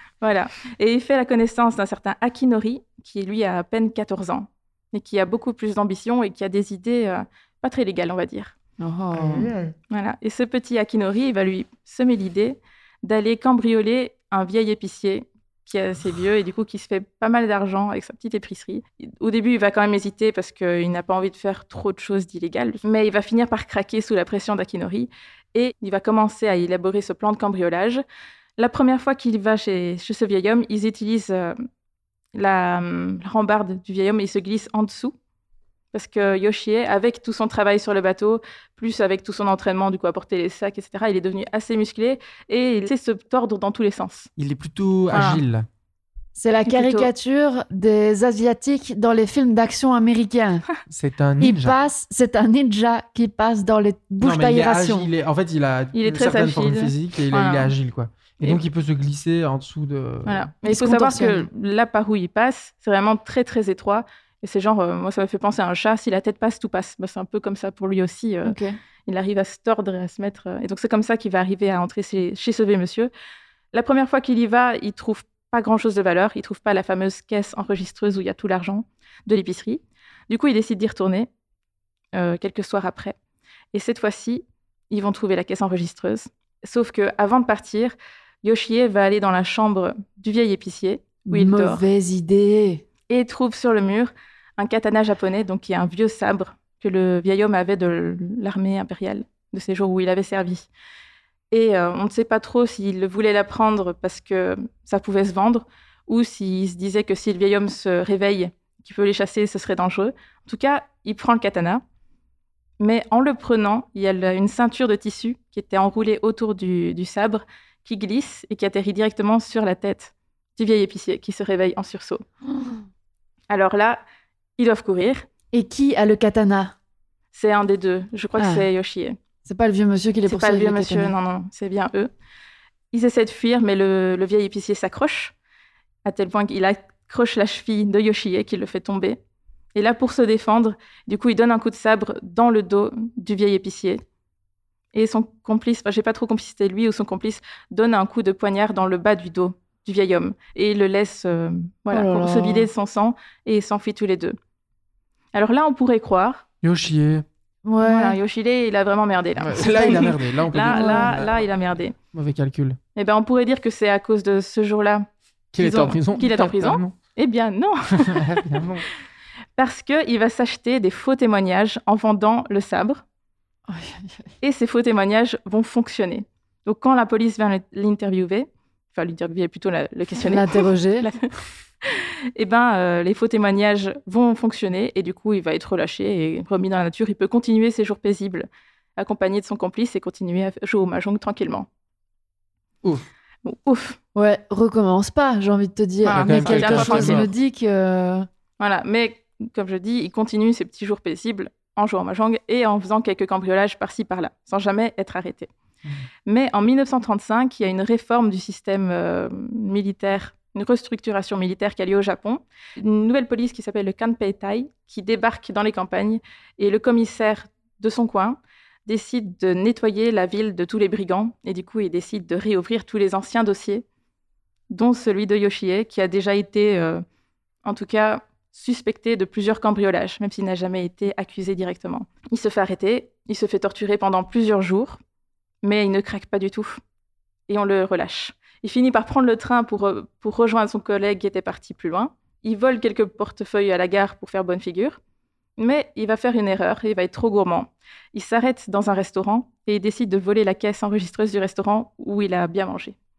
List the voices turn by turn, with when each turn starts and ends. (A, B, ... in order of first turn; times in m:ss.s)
0:00.2-0:08.6 A
0:08.8-0:09.5 B
0:09.2-0:09.7 C
0:09.9-0:28.0 A
0:28.6-0:31.6 A
0:32.3-0:35.2 A
0:35.9-0:44.3 A
0:44.4-0:45.7 C
0:45.1-0:45.4 A
0:46.4-0:50.7 B
0:46.7-0:47.1 A
0:50.9-0:51.8 C
0:51.4-0:55.1 B
0:54.2-1:00.5 C
0:55.9-0:57.7 A
1:00.3-1:08.6 A
1:00.6-1:01.5 B
1:08.4-1:08.8 B
1:09.1-1:13.1 A
1:13.7-1:21.3 A
1:22.1-1:23.2 A
1:23.7-1:31.8 A
1:31.3-1:32.8 B
1:33.1-1:40.7 A
1:41.5-1:51.8 A
1:52.8-2:02.2 A
2:03.5-2:04.0 A
2:04.6-2:05.3 A
2:05.5-2:06.7 B
2:07.3-2:09.2 A
2:08.4-2:08.7 B
2:09.4-2:11.1 B
2:10.3-2:12.1 A
2:12.9-2:15.3 A
2:16.0-2:19.2 A
2:19.7-2:24.0 A
2:24.9-2:34.4 A
2:31.9-2:32.7 B
2:35.3-2:36.4 A
2:36.6-2:37.2 C
2:37.6-2:38.2 B
2:37.8-2:42.0 A
2:39.4-2:41.4 C
2:39.6-2:41.2 B
2:42.1-2:42.8 C
2:43.0-2:45.1 A
2:45.5-2:46.9 C
2:45.6-2:48.6 A
2:47.9-2:48.9 C
2:49.6-2:53.0 A
2:53.7-2:54.3 B
2:54.4-3:01.3 A
3:00.2-3:01.1 B
3:01.8-3:11.7 A
3:13.4-3:14.0 A
3:14.2-3:18.3 B
3:16.0-3:17.3 A
3:16.1-3:17.3 C
3:18.6-3:25.5 A
3:26.3-3:43.8 A
3:44.7-3:47.0 A
3:47.6-3:55.0 A
3:55.6-3:56.8 A
3:57.5-4:05.0 A
4:05.6-4:13.0 A